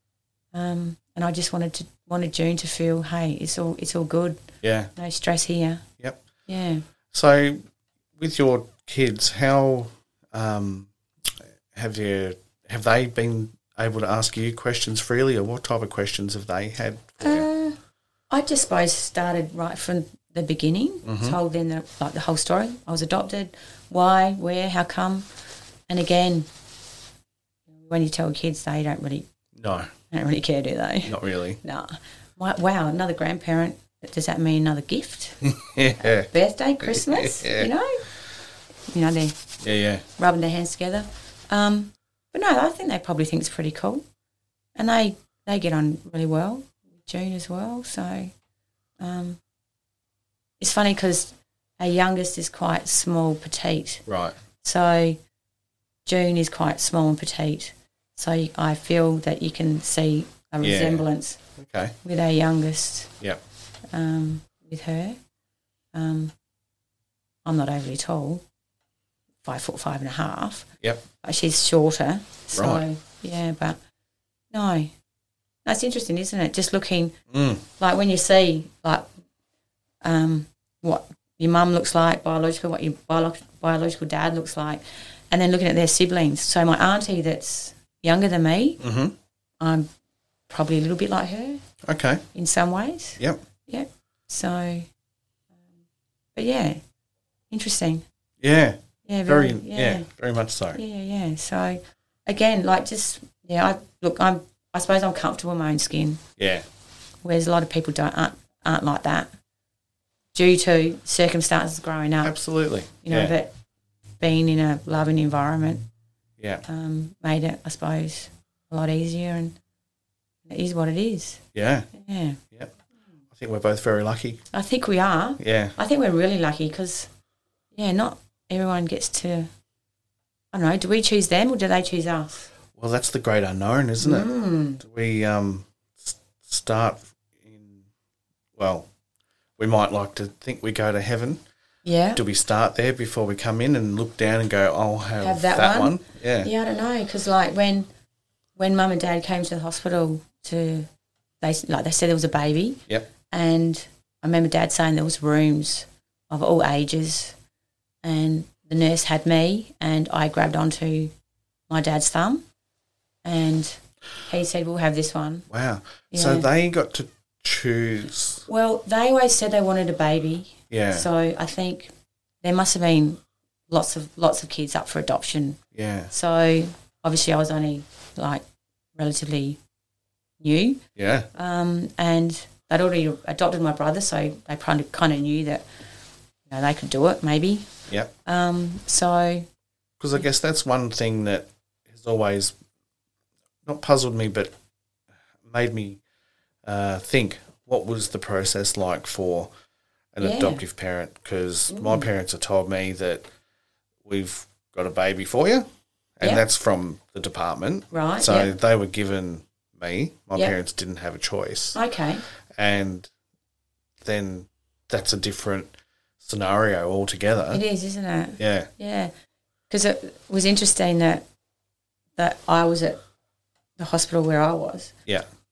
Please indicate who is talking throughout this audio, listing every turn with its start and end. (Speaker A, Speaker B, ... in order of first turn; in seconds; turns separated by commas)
Speaker A: 0.5-4.4, Speaker B: 4.6-4.9, Speaker A: 5.0-5.8, Speaker A: 6.5-6.8, Speaker B: 7.1-7.6, Speaker B: 8.2-10.9, Speaker B: 11.7-17.5, Speaker A: 17.2-17.8, Speaker A: 18.3-25.3, Speaker B: 21.1-21.4, Speaker A: 25.9-26.5, Speaker A: 27.7-29.3, Speaker B: 29.6-29.9, Speaker A: 30.1-35.4, Speaker B: 31.1-31.6, Speaker B: 35.5-36.3, Speaker A: 36.0-38.0, Speaker B: 36.8-37.7, Speaker A: 38.9-39.5, Speaker B: 39.6-40.0, Speaker A: 40.2-44.0, Speaker A: 44.8-48.3, Speaker A: 49.0-49.4, Speaker A: 50.6-54.0, Speaker B: 54.1-54.4, Speaker A: 54.6-55.2, Speaker A: 56.1-61.4, Speaker B: 60.6-61.0, Speaker B: 61.6-62.0, Speaker A: 62.0-63.1, Speaker A: 63.9-65.2, Speaker A: 65.9-66.3, Speaker A: 67.5-68.4, Speaker A: 69.4-70.7, Speaker A: 71.2-73.8, Speaker B: 72.5-72.8, Speaker A: 74.5-74.9, Speaker A: 75.7-77.1, Speaker B: 77.3-77.6, Speaker A: 77.8-79.1, Speaker A: 80.0-88.8, Speaker B: 88.8-89.2, Speaker A: 89.6-89.9, Speaker A: 90.5-91.6, Speaker B: 91.8-92.2, Speaker A: 92.3-94.9, Speaker A: 96.3-96.8, Speaker A: 97.5-98.0, Speaker B: 98.4-100.8, Speaker A: 99.1-100.1, Speaker A: 100.8-106.2, Speaker B: 106.4-106.7, Speaker A: 107.2-109.3, Speaker A: 110.3-112.3, Speaker B: 112.2-113.3, Speaker A: 113.0-113.5, Speaker A: 114.2-115.8, Speaker B: 116.4-116.7, Speaker A: 116.7-119.6, Speaker A: 120.5-121.4, Speaker B: 121.5-121.9, Speaker A: 121.9-122.4, Speaker B: 123.3-124.4, Speaker A: 124.5-127.1, Speaker B: 125.4-125.8, Speaker A: 127.7-129.5, Speaker A: 130.5-132.5, Speaker B: 132.8-134.3, Speaker A: 134.0-134.8, Speaker B: 134.8-137.8, Speaker B: 138.6-138.9, Speaker B: 139.6-141.4, Speaker A: 141.8-142.2, Speaker B: 142.2-146.5, Speaker A: 145.2-147.9, Speaker A: 148.6-150.9, Speaker A: 151.4-157.3, Speaker A: 158.0-161.1, Speaker A: 161.7-162.4, Speaker A: 163.2-165.5, Speaker B: 165.5-168.5, Speaker A: 166.1-166.5, Speaker A: 168.5-171.9, Speaker B: 170.7-171.1, Speaker A: 172.4-175.6, Speaker B: 175.7-176.1, Speaker A: 176.1-178.4, Speaker A: 178.9-179.6, Speaker A: 180.4-180.8, Speaker B: 181.0-181.3, Speaker A: 181.3-185.7, Speaker A: 186.5-187.7, Speaker A: 188.2-189.5, Speaker B: 190.0-192.6, Speaker B: 193.7-194.5, Speaker B: 195.5-196.0, Speaker B: 196.6-199.5, Speaker B: 200.2-203.3, Speaker A: 200.2-200.6, Speaker A: 201.7-202.1, Speaker B: 204.1-205.7, Speaker B: 206.2-211.8, Speaker A: 207.9-208.5, Speaker A: 211.8-212.2, Speaker B: 212.6-213.1, Speaker B: 214.0-217.6, Speaker A: 217.5-219.1, Speaker B: 218.4-218.7, Speaker A: 219.7-221.2, Speaker A: 222.2-223.0, Speaker A: 223.8-224.9